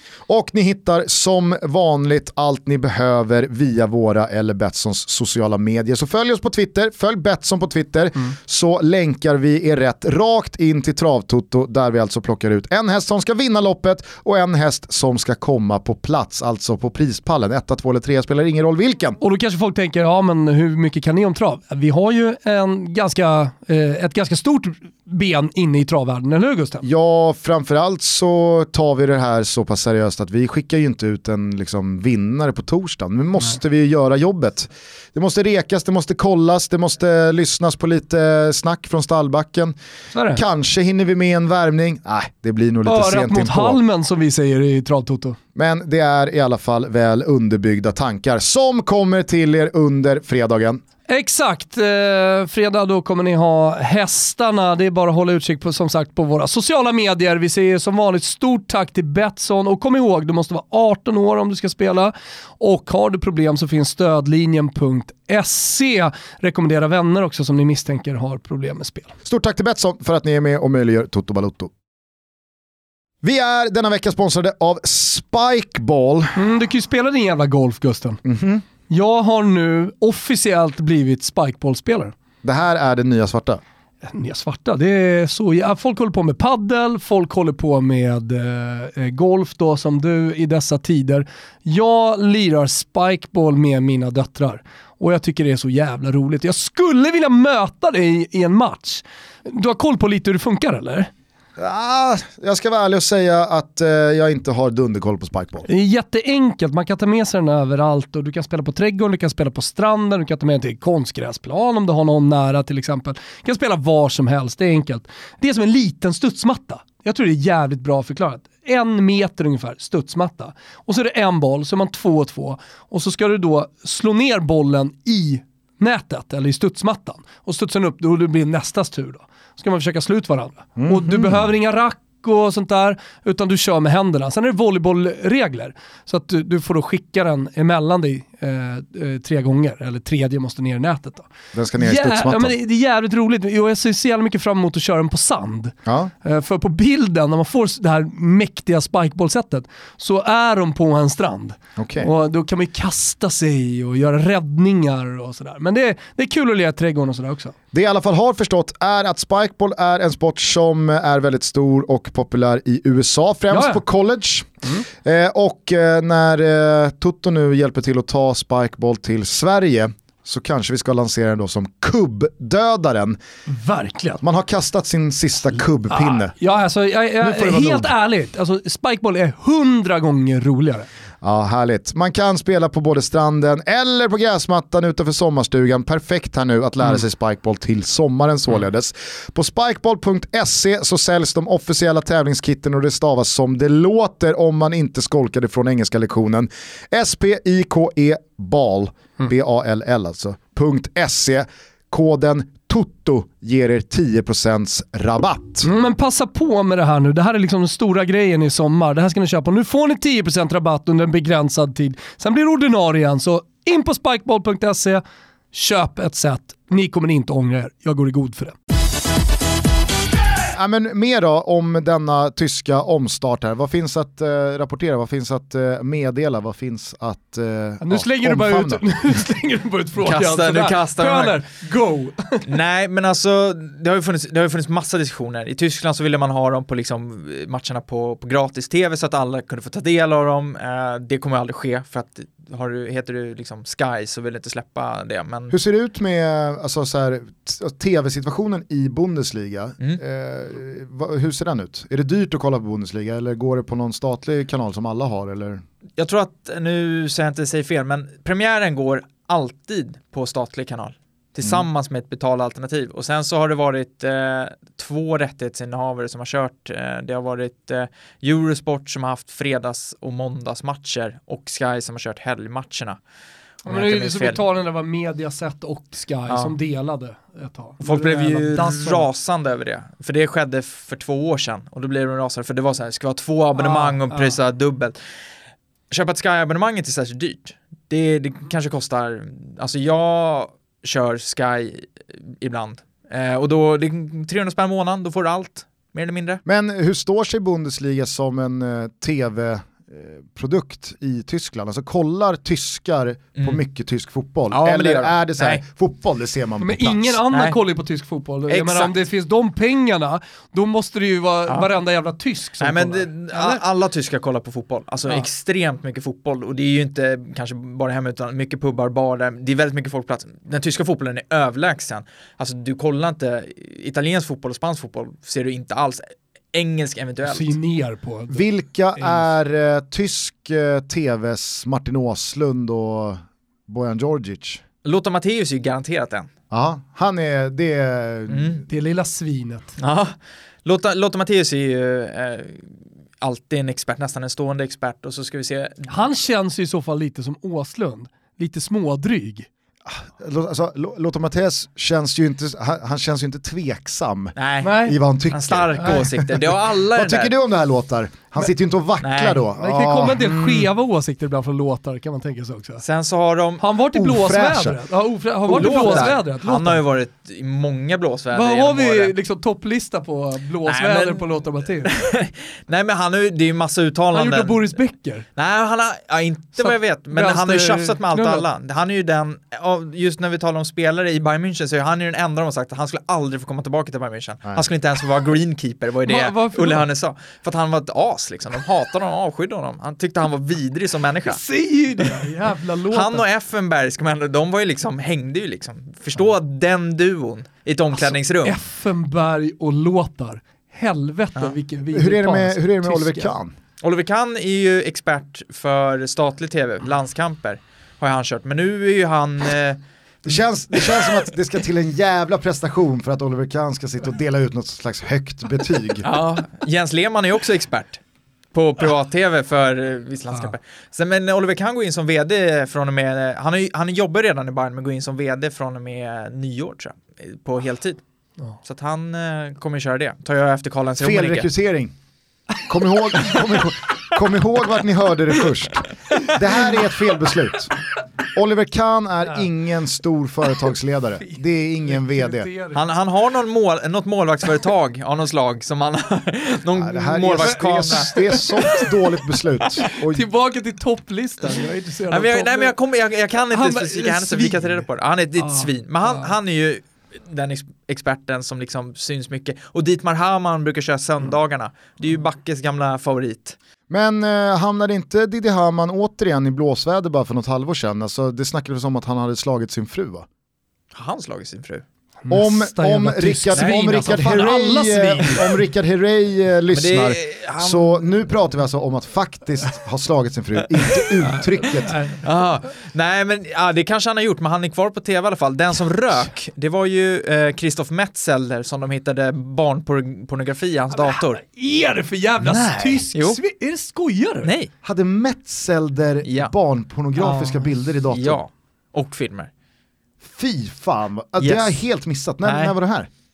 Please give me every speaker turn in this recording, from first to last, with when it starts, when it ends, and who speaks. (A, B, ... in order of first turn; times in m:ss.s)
0:00.3-0:19.2 A
0:19.2-0:26.8 B
0:26.8-0:39.8 A
0:40.1-0:40.4 B
0:40.3-0:43.8 A
0:42.8-0:45.4 B
0:45.6-0:50.8 A
0:51.1-1:09.1 B
1:09.2-1:11.7 A
1:13.2-1:16.4 A
1:16.3-1:18.2 B
1:18.2-1:18.6 A
1:18.9-1:22.1 B
1:22.4-1:23.6 A
1:24.0-1:41.1 B
1:41.6-1:45.7 A
1:45.7-2:37.5 B
2:10.8-2:11.4 A
2:21.5-2:22.5 A
2:25.8-2:26.1 A
2:31.8-2:32.1 A
2:37.7-2:53.2 A
2:43.5-2:43.8 B
2:53.5-2:54.2 B
2:54.2-2:56.3 A
2:55.9-3:00.9 B
2:57.2-2:57.9 A
3:01.2-3:25.7 A
3:25.6-3:38.6 B
3:40.5-3:48.9 A
3:47.8-3:52.4 B
3:50.0-3:51.4 C
3:52.4-4:05.5 C
4:05.5-4:15.6 A
4:16.0-4:33.0 C
4:33.6-4:34.4 C
4:33.6-4:39.1 B
4:36.3-4:36.5 C
4:37.8-4:45.0 C
4:43.6-4:44.4 B
4:45.9-4:56.4 C
4:56.4-5:07.2 A
5:04.5-5:05.6 C
5:06.6-5:13.6 B
5:07.3-5:07.6 C
5:08.5-5:08.9 C
5:12.6-5:27.6 C
5:27.2-5:29.2 B
5:28.3-5:34.6 A
5:34.8-5:36.3 C
5:36.5-5:38.6 A
5:38.3-5:38.6 C
5:38.7-5:39.7 B
5:39.8-5:46.0 C
5:45.9-5:49.5 B
5:49.8-6:00.7 A
5:54.4-5:57.3 C
5:54.6-5:55.0 B
5:59.0-5:59.4 C
5:59.6-6:02.8 B
6:02.8-6:03.6 C
6:03.6-6:06.8 B
6:03.9-6:04.8 A
6:05.4-6:09.1 C
6:05.6-6:06.1 A
6:08.3-6:11.9 B
6:10.6-6:11.3 C
6:11.8-6:14.8 C
6:14.1-6:15.2 B
6:15.3-6:31.4 C
6:16.6-6:18.4 B
6:26.0-6:26.8 B
6:31.2-6:33.2 B
6:32.9-6:38.6 C
6:38.0-6:43.3 B
6:41.9-6:43.5 A
6:43.8-6:49.8 C
6:50.2-6:56.1 A
6:56.0-6:58.0 C
6:58.5-7:08.0 C
7:08.6-7:11.5 C
7:11.0-7:11.9 A
7:12.7-7:17.7 A
7:18.3-7:22.5 A
7:21.9-7:22.8 B
7:22.7-7:28.8 C
7:26.7-7:30.3 A
7:27.9-7:28.9 B
7:29.8-7:32.7 B
7:32.1-7:43.6 C
7:33.5-7:34.8 B
7:35.4-7:36.3 B
7:43.9-7:50.2 A
7:50.9-7:51.8 C
7:52.2-7:55.5 B
7:52.3-8:01.9 A
7:56.7-7:58.1 C
8:01.2-8:02.2 B
8:02.2-8:11.4 C
8:10.9-8:14.5 B
8:12.4-8:13.4 C
8:14.4-8:14.7 C
8:14.8-8:18.4 A
8:16.2-8:16.5 C
8:17.2-8:17.6 B
8:18.1-8:19.5 C
8:20.2-8:23.1 A
8:21.4-8:21.8 C
8:22.4-8:22.7 C